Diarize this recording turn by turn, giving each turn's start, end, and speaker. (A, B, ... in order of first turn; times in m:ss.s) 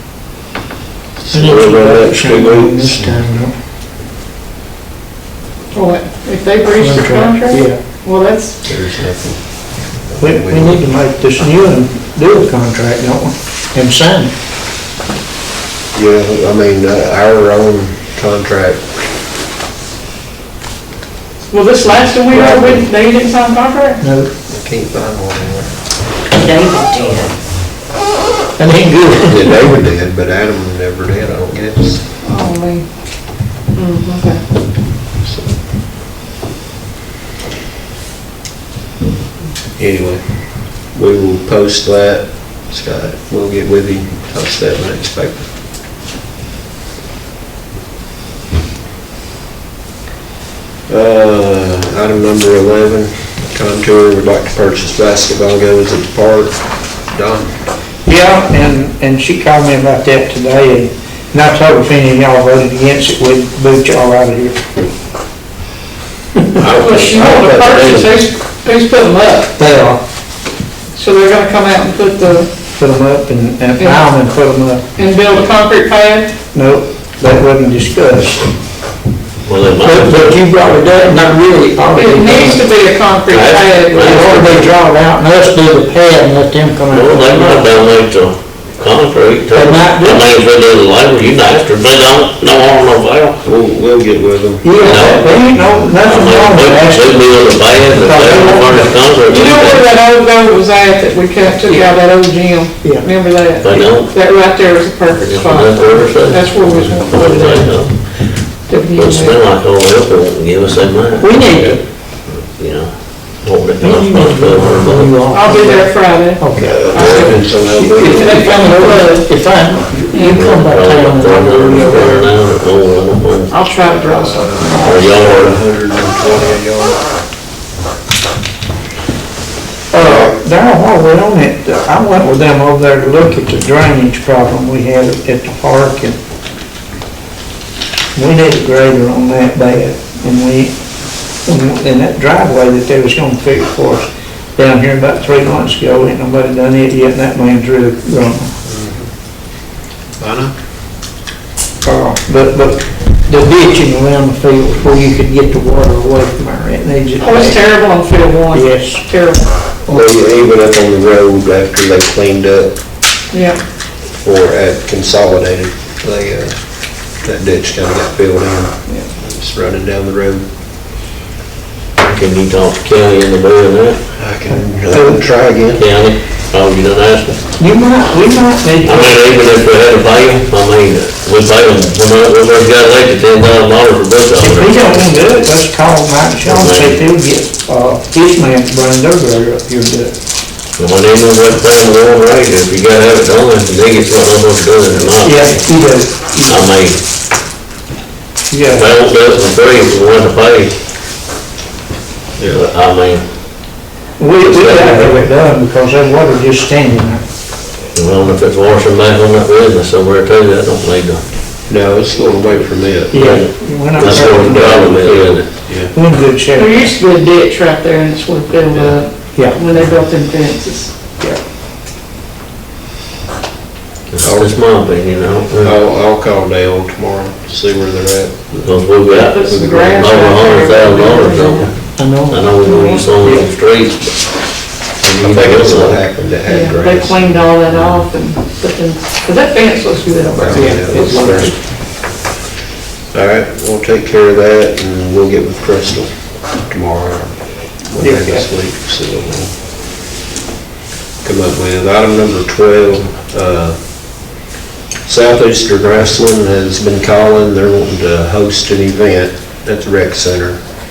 0:01.3-0:02.0 A
0:01.3-0:03.5 B
0:01.4-0:02.8 C
0:05.7-0:08.6 D
0:06.8-0:07.8 B
0:08.6-0:10.8 A
0:10.2-0:14.3 B
0:15.9-0:18.8 A
0:21.5-0:24.0 D
0:22.3-0:22.8 A
0:24.0-0:24.3 B
0:24.5-0:25.7 A
0:26.4-0:27.3 D
0:28.6-0:29.7 B
0:29.3-0:32.0 A
0:32.2-0:32.8 D
0:33.7-0:34.4 D
0:35.2-0:35.6 A
0:39.8-0:45.5 A
0:50.9-0:57.5 A
0:58.1-1:04.7 B
1:06.5-1:08.2 A
1:06.6-1:09.6 D
1:09.6-1:10.0 B
1:10.9-1:12.5 D
1:12.7-1:14.8 B
1:13.8-1:14.1 D
1:15.0-1:16.4 D
1:16.5-1:18.5 B
1:19.4-1:20.4 C
1:19.8-1:22.6 B
1:21.9-1:24.4 D
1:23.3-1:24.7 C
1:24.0-1:27.7 B
1:26.9-1:33.4 C
1:29.5-1:30.4 B
1:33.4-1:34.9 A
1:34.6-1:39.0 B
1:34.8-1:39.8 C
1:39.2-1:48.0 D
1:43.6-1:44.1 C
1:45.2-1:48.2 C
1:48.7-1:49.4 D
1:49.0-1:51.4 C
1:51.2-1:51.8 B
1:52.3-1:55.2 C
1:53.8-1:56.9 B
1:55.3-1:57.5 D
1:56.6-1:58.5 A
1:57.6-2:02.3 B
1:58.0-1:59.3 D
2:00.1-2:00.4 D
2:00.3-2:03.5 C
2:03.5-2:05.0 D
2:04.1-2:07.0 A
2:04.8-2:05.6 C
2:09.9-2:16.2 B
2:10.0-2:10.4 A
2:18.2-2:20.8 B
2:21.4-2:28.5 B
2:28.6-2:29.1 A
2:30.2-2:30.5 A
2:31.8-2:37.6 B
2:37.2-2:39.5 D
2:38.5-2:39.0 B
2:39.9-2:42.7 A
2:43.3-2:43.6 D
2:44.2-2:46.6 A
2:47.2-2:50.4 A
2:52.0-2:54.0 C
2:54.2-2:55.8 A
2:54.9-2:55.2 B
2:55.7-2:57.4 C
2:57.6-2:59.4 B
2:58.8-3:05.4 C
3:04.4-3:10.1 B
3:06.4-3:07.0 C
3:10.8-3:15.7 C
3:15.2-3:16.7 B
3:16.4-3:17.0 C
3:18.5-3:18.9 B
3:18.6-3:20.7 C
3:22.4-3:22.6 A
3:22.4-3:23.2 C
3:24.2-3:27.2 B
3:24.4-3:25.2 C
3:28.0-3:31.2 C
3:31.7-3:35.9 A
3:33.1-3:34.9 B
3:33.1-3:35.5 C
3:35.9-3:36.9 B
3:36.5-3:41.0 D
3:38.7-3:39.0 A
3:39.4-3:39.6 B
3:44.1-3:45.7 C
3:44.2-3:44.6 A
3:45.6-3:48.8 A
3:48.6-3:54.2 C
3:49.1-3:51.7 D
3:52.0-3:53.4 B
3:52.6-3:53.0 D
3:55.0-3:57.9 A
3:55.1-3:56.0 C
3:56.4-4:01.5 D
4:00.3-4:01.5 A
4:00.5-4:01.5 B
4:03.1-4:07.4 A
4:07.9-4:09.6 A
4:08.0-4:08.4 B
4:11.2-4:13.8 A
4:15.1-4:20.6 A